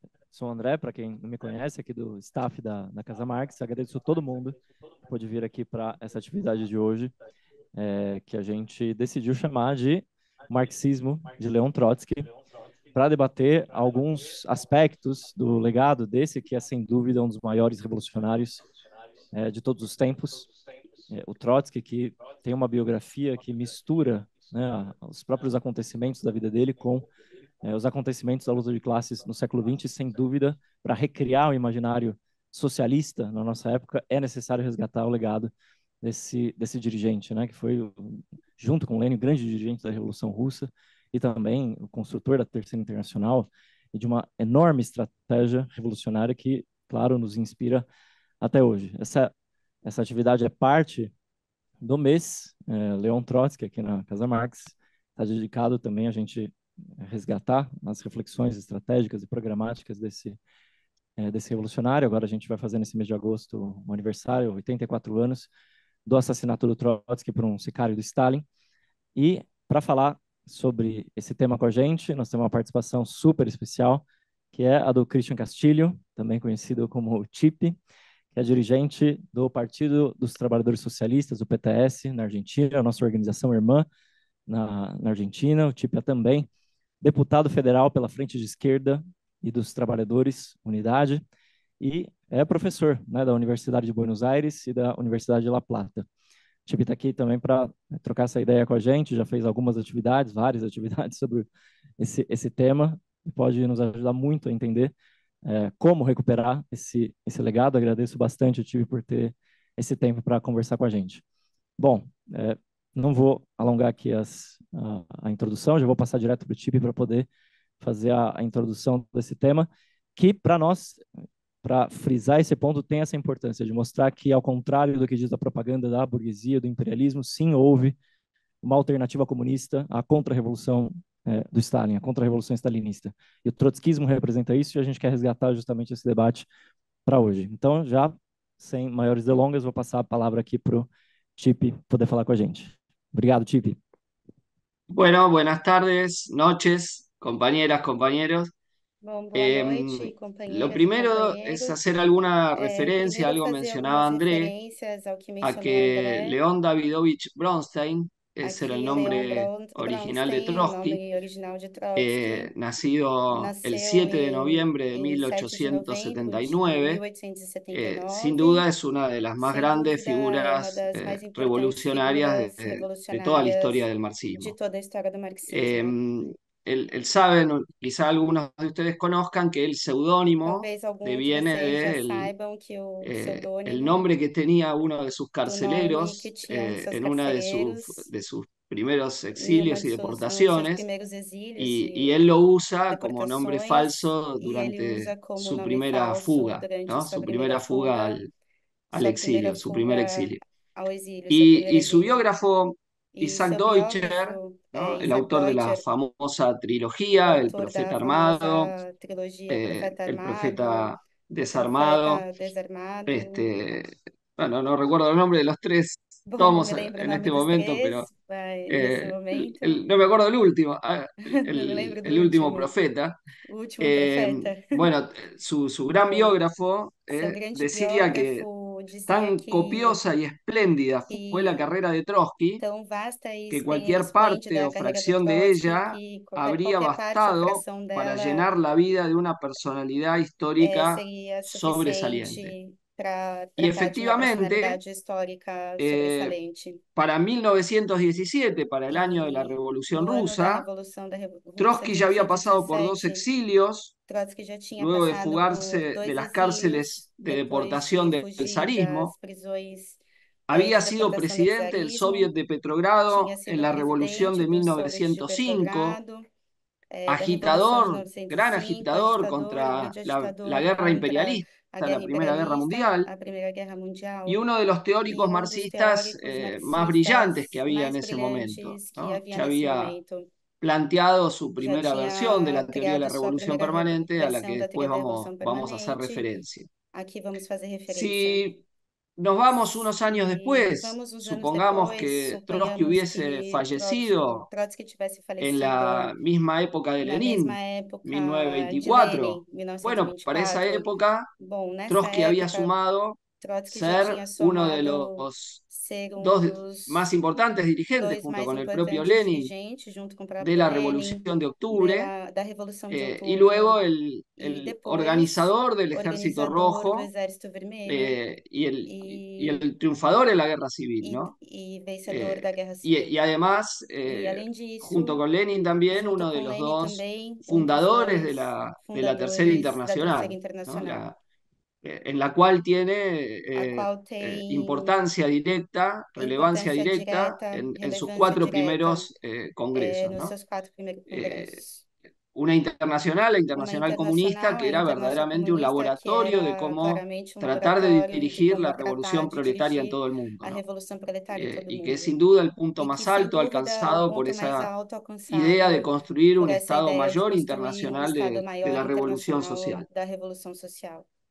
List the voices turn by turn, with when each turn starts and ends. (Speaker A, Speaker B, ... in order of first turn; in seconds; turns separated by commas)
Speaker A: 0.3-4.6, Speaker A: 5.1-7.1, Speaker A: 7.7-12.3, Speaker A: 12.9-18.6, Speaker A: 19.3-20.5, Speaker A: 21.1-27.1, Speaker A: 27.6-35.5, Speaker A: 36.0-47.8, Speaker A: 48.4-49.3, Speaker A: 49.8-51.1, Speaker A: 51.8-60.4, Speaker A: 61.2-65.5, Speaker A: 66.0-68.4, Speaker A: 69.2-77.8, Speaker A: 78.3-83.8, Speaker A: 84.5-86.5, Speaker A: 87.0-91.2, Speaker A: 91.8-96.1, Speaker A: 96.7-101.5, Speaker A: 102.0-104.9, Speaker A: 105.4-111.2, Speaker A: 111.8-117.3, Speaker A: 117.8-121.0, Speaker A: 121.6-128.0, Speaker A: 128.6-136.4, Speaker A: 137.1-143.8, Speaker B: 144.9-148.5, Speaker C: 149.0-151.8, Speaker B: 149.3-154.5, Speaker C: 152.5-156.4, Speaker B: 155.4-161.0, Speaker C: 158.4-162.5, Speaker B: 161.9-167.0, Speaker C: 163.3-168.7, Speaker B: 167.7-174.6, Speaker C: 169.4-173.8, Speaker C: 174.4-176.0, Speaker B: 175.5-182.3, Speaker C: 180.4-184.1, Speaker B: 183.0-190.8, Speaker C: 185.4-188.0, Speaker C: 189.3-192.2, Speaker B: 191.6-198.3, Speaker C: 192.9-198.2, Speaker C: 198.9-202.4, Speaker B: 198.9-200.4, Speaker B: 201.3-208.8, Speaker C: 203.2-205.8, Speaker C: 207.1-211.0, Speaker B: 209.5-212.2, Speaker C: 211.5-213.4, Speaker B: 213.1-218.1, Speaker C: 216.2-219.8, Speaker B: 218.7-223.2, Speaker C: 221.2-222.7, Speaker C: 223.4-224.9, Speaker B: 223.8-228.4, Speaker C: 225.9-226.4, Speaker C: 227.1-230.0, Speaker B: 229.1-232.6, Speaker C: 231.1-231.6, Speaker C: 232.6-238.5, Speaker B: 233.5-242.5, Speaker C: 240.6-246.8, Speaker B: 243.6-244.8, Speaker B: 245.8-246.3, Speaker B: 246.9-250.7, Speaker C: 248.9-253.2, Speaker B: 251.6-253.9, Speaker C: 254.1-262.3, Speaker B: 254.8-259.1, Speaker B: 260.5-266.0, Speaker C: 263.1-266.2, Speaker C: 266.9-274.5, Speaker B: 267.1-273.1, Speaker B: 274.3-279.9, Speaker C: 275.0-280.3, Speaker B: 280.6-286.7, Speaker C: 281.6-286.2, Speaker C: 286.9-288.4, Speaker B: 287.9-288.6, Speaker B: 289.2-294.4, Speaker C: 289.5-296.1, Speaker B: 295.4-301.3, Speaker C: 297.0-302.7, Speaker B: 301.9-305.6, Speaker C: 303.4-307.1, Speaker B: 306.2-309.5, Speaker C: 308.0-313.8, Speaker B: 310.4-312.1, Speaker B: 312.9-317.1, Speaker C: 314.4-318.2, Speaker B: 317.9-321.3, Speaker C: 318.8-319.6, Speaker C: 321.0-323.1, Speaker B: 322.1-331.1, Speaker C: 324.1-325.2, Speaker C: 325.9-331.0, Speaker B: 331.8-340.3, Speaker C: 333.5-335.0, Speaker C: 336.2-339.1, Speaker C: 339.7-341.8, Speaker B: 341.1-341.6, Speaker B: 342.3-350.6, Speaker C: 343.6-352.1, Speaker B: 351.3-354.7, Speaker C: 352.8-355.9, Speaker B: 355.3-359.8, Speaker C: 356.4-361.1